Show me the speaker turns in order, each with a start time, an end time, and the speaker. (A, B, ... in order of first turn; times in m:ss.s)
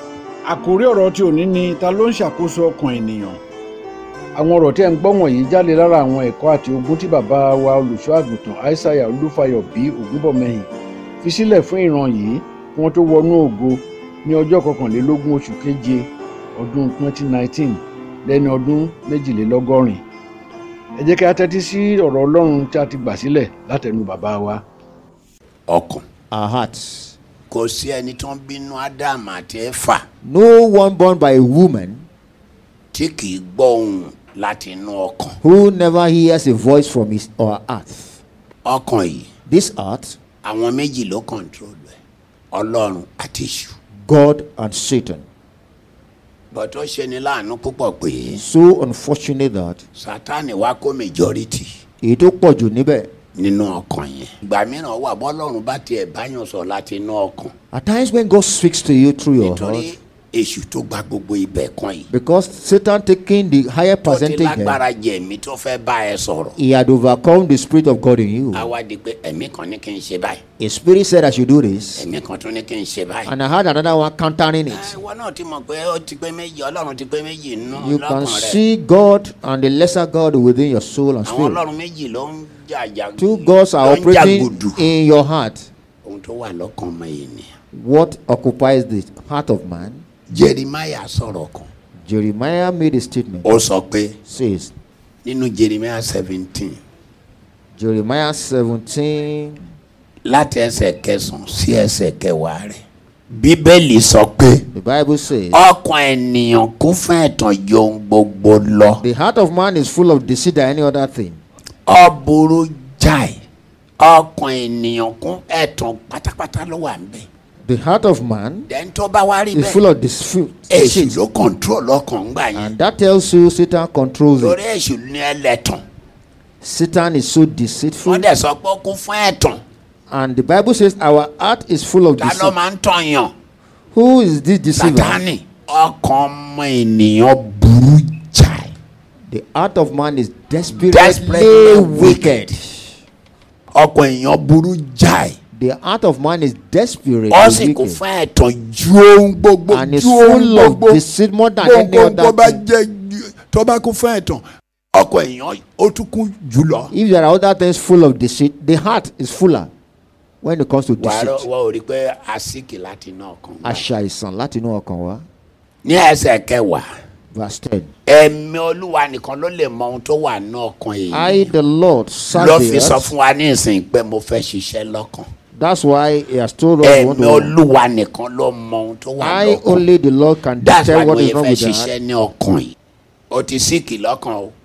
0:00.4-0:03.4 A
0:04.3-0:10.7 A
0:11.2-0:20.0 A
0:21.0-0:24.6 A
0:25.7-0:26.0 B
0:26.3-0:27.2 C
0:27.5-0:30.0 B
0:30.2-0:32.1 C
0:32.9-0:35.4 B
0:35.4-0:38.2 C
0:38.6-0:39.3 B
0:39.5-0:40.2 C
0:40.4-0:42.0 B
0:42.5-0:43.8 B
0:44.0-0:45.2 C
0:46.5-0:48.4 B
0:48.4-0:49.8 C
0:50.0-0:51.7 B
0:52.0-0:53.1 C
0:53.3-0:57.5 B
0:57.7-1:00.0 C
0:59.4-1:02.1 B
1:02.1-1:04.8 C
1:04.0-1:06.6 B
1:06.6-1:08.7 C
1:08.5-1:10.4 B
1:10.6-1:12.1 C
1:12.0-1:13.3 B
1:13.2-1:15.0 C
1:14.7-1:18.6 B
1:17.7-1:21.6 C
1:21.2-1:24.9 B
1:23.2-1:25.7 C
1:26.0-1:27.5 B
1:27.7-1:30.0 C
1:30.3-1:31.7 B
1:32.0-1:33.5 C
1:33.4-1:34.2 B
1:34.2-1:34.7 C
1:35.2-1:36.8 B
1:37.8-1:39.6 C
1:40.2-1:42.8 B
1:43.3-1:44.7 B
1:44.7-1:45.6 C
1:45.5-1:49.0 B
1:49.0-1:51.4 C
1:51.9-1:53.3 B
1:54.0-1:57.2 B
1:57.6-1:58.7 C
1:58.7-1:59.8 B
1:59.5-2:01.2 C
2:00.7-2:02.7 B
2:02.5-2:04.6 C
2:04.4-2:05.8 B
2:06.6-2:08.2 C
2:08.0-2:09.6 B
2:10.1-2:12.5 C
2:12.2-2:13.3 B
2:13.9-2:15.2 C
2:14.8-2:18.7 B
2:19.3-2:23.0 C
2:20.7-2:22.5 B
2:23.7-2:25.4 B
2:25.5-2:28.0 C
2:27.3-2:31.0 B
2:29.7-2:32.6 C
2:31.6-2:34.4 B
2:34.9-2:36.9 B
2:36.9-2:39.7 C
2:40.4-2:41.4 C
2:41.0-2:43.9 B
2:43.6-2:45.2 C
2:45.8-2:46.8 B
2:47.3-2:47.9 C
2:48.1-2:51.5 B
2:51.1-2:53.1 C
2:52.3-2:55.3 B
2:55.5-2:57.5 C
2:56.8-2:59.8 B
2:59.2-3:01.9 C
3:00.6-3:02.8 B
3:03.3-3:04.5 B